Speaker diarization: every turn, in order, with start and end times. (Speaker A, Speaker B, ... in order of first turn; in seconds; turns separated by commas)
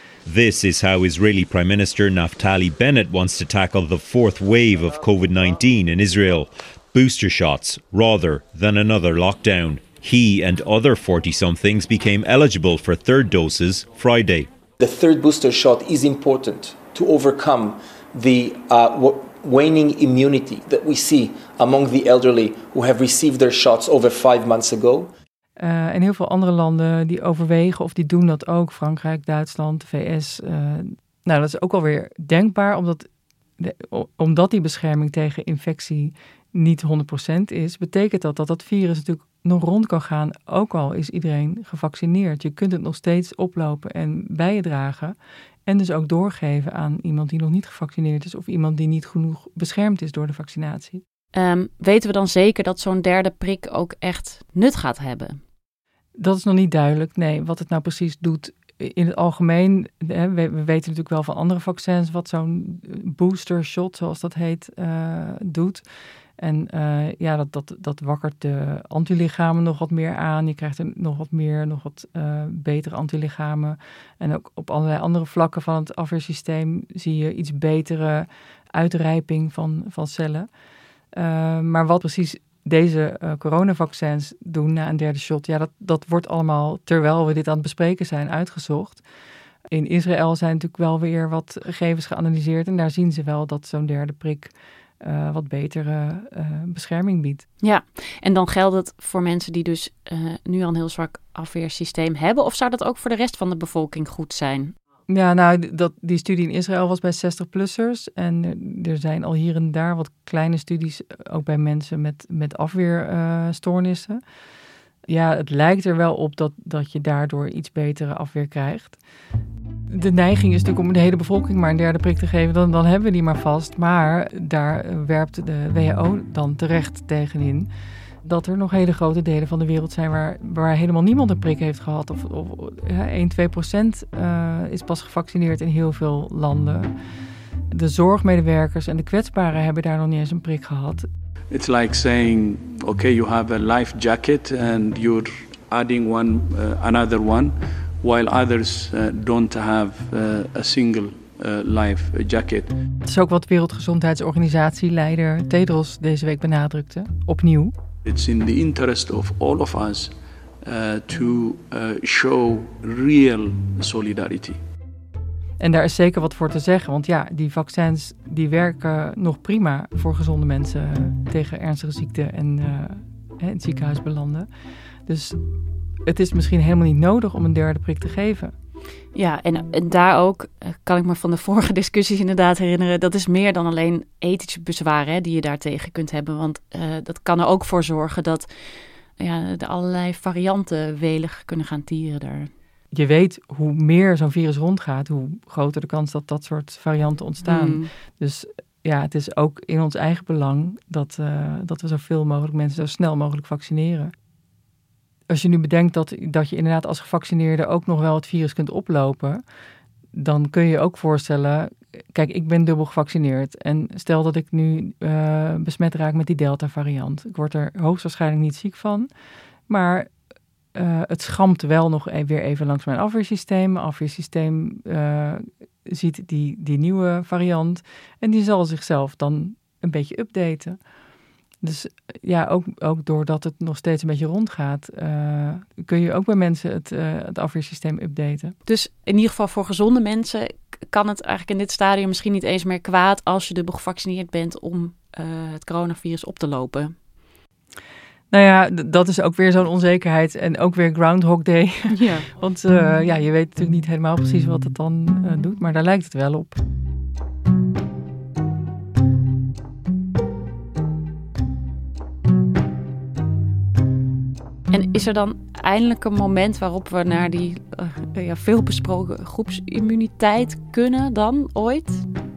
Speaker A: 0.3-14.5, Speaker B: 14.8-25.1, Speaker C: 25.6-33.1, Speaker C: 33.6-45.2, Speaker C: 45.7-51.0, Speaker D: 51.3-55.4, Speaker C: 56.2-65.8, Speaker C: 66.4-80.5, Speaker C: 81.1-89.0, Speaker C: 89.7-97.5, Speaker D: 97.6-104.8, Speaker C: 105.1-114.2, Speaker C: 115.1-119.0, Speaker C: 119.9-127.7, Speaker C: 128.2-136.9, Speaker C: 137.7-141.1, Speaker E: 141.5-152.7, Speaker C: 153.1-157.7, Speaker E: 158.1-164.6, Speaker C: 165.6-174.5, Speaker C: 175.1-175.4, Speaker C: 176.1-178.5, Speaker D: 179.1-192.5, Speaker C: 192.9-204.1, Speaker D: 197.4-197.9, Speaker C: 205.3-209.4, Speaker C: 210.1-219.1, Speaker C: 219.7-220.1, Speaker C: 220.8-230.8, Speaker C: 231.6-238.6, Speaker D: 238.7-247.0, Speaker C: 248.3-256.6, Speaker D: 251.9-252.3, Speaker D: 264.7-272.0